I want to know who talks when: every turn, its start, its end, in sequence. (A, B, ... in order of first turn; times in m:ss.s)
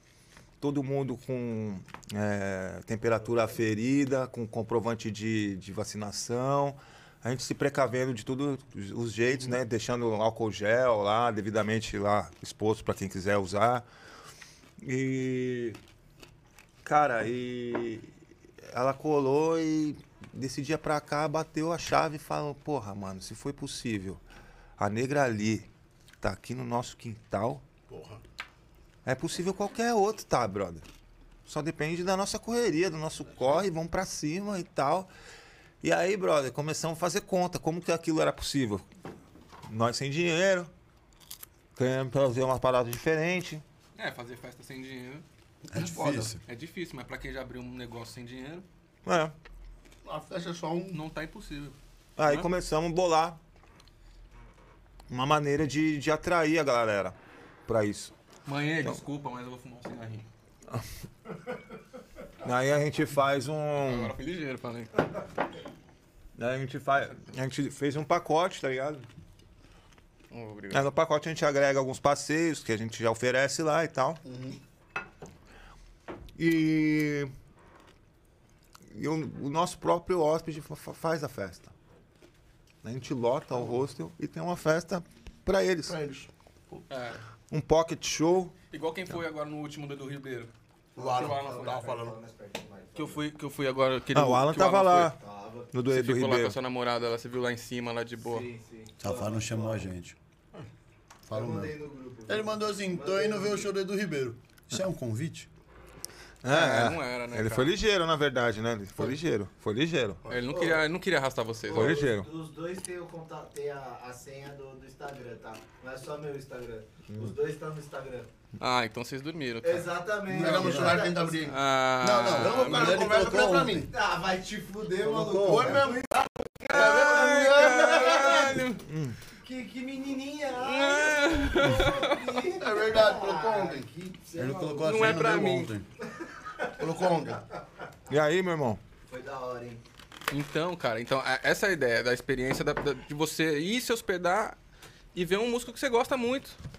0:00.6-0:13.8 A
0:14.8-0:15.8 A
0:16.8-0:18.1 A
0:18.7-0:24.2 A
0:24.8-0:25.7 A
0:26.2-0:27.6 A
0:27.9-0:28.2 B
0:29.0-0:30.8 A
0:31.4-0:35.1 A
0:35.8-0:38.8 A
0:39.6-0:40.7 A
0:41.8-0:43.6 A
0:44.0-0:45.2 C
0:45.7-0:46.4 D
0:45.8-0:46.3 B
0:46.4-0:48.6 C
0:49.0-0:49.3 A
0:50.0-0:51.0 B
0:50.9-0:52.5 C
0:52.2-0:53.4 A
0:55.1-0:58.1 A
0:58.4-1:00.2 C
1:02.4-1:04.1 A
1:03.8-1:05.1 C
1:06.4-1:09.0 A
1:10.3-1:10.9 C
1:10.7-1:14.2 A
1:14.2-1:14.6 B
1:16.4-1:17.3 A
1:18.9-1:21.7 A
1:22.8-1:26.0 A
1:25.8-1:26.8 B
1:26.9-1:27.2 C
1:27.5-1:28.5 A
1:28.7-1:30.5 C
1:31.0-1:32.1 B
1:31.0-1:33.2 E
1:31.0-1:31.8 C
1:33.0-1:35.1 C
1:34.1-1:35.2 A
1:35.1-1:35.7 E
1:35.7-1:36.6 A
1:35.9-1:38.4 C
1:38.2-1:39.9 E
1:39.0-1:40.2 D
1:41.3-1:41.7 D
1:41.3-1:43.7 E
1:42.3-1:45.5 D
1:46.4-1:50.2 A
1:46.5-1:47.7 C
1:50.2-1:50.8 B
1:50.3-1:52.0 C
1:51.6-1:58.3 E
1:51.7-1:52.3 A
1:57.1-1:57.4 A
1:58.6-1:59.9 C
1:59.6-2:01.5 E
2:00.3-2:01.0 D
2:00.3-2:01.6 B
2:01.4-2:03.1 C
2:02.0-2:03.9 D
2:02.3-2:03.9 B
2:03.8-2:06.1 E
2:05.0-2:05.9 D
2:05.4-2:08.4 B
2:06.6-2:08.7 E
2:06.7-2:08.8 C
2:08.8-2:09.2 A
2:09.3-2:15.4 E
2:10.6-2:12.4 C
2:12.5-2:13.9 B
2:14.4-2:15.9 D
2:14.8-2:15.7 C
2:16.4-2:17.4 E
2:16.8-2:17.4 B
2:18.1-2:18.8 A
2:19.1-2:19.8 E
2:20.3-2:24.6 C
2:25.1-2:26.6 C